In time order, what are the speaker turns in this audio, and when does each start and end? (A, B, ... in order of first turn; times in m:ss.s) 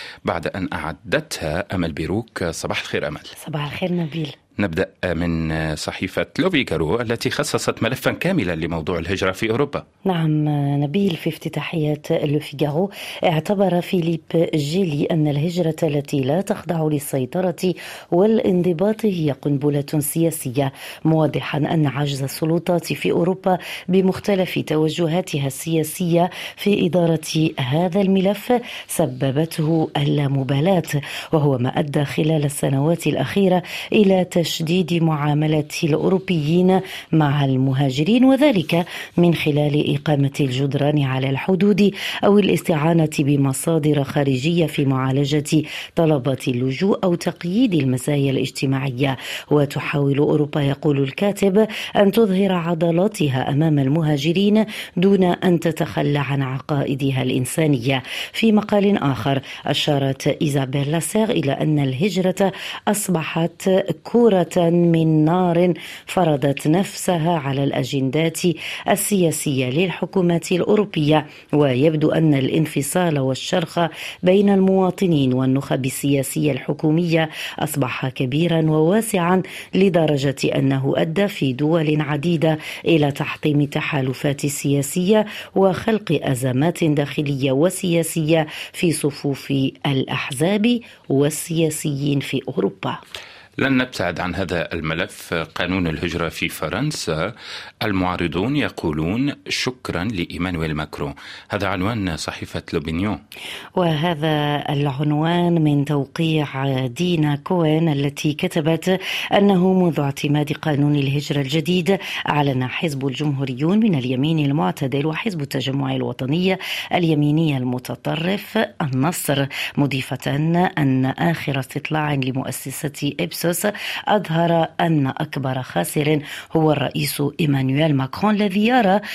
0:00.2-0:03.3 A
0:03.4-0:04.3 B
0:04.6-0:09.8 A
0:10.0-1:33.0 B
1:33.6-1:37.3 A
1:37.8-1:43.2 A
1:43.8-2:09.0 B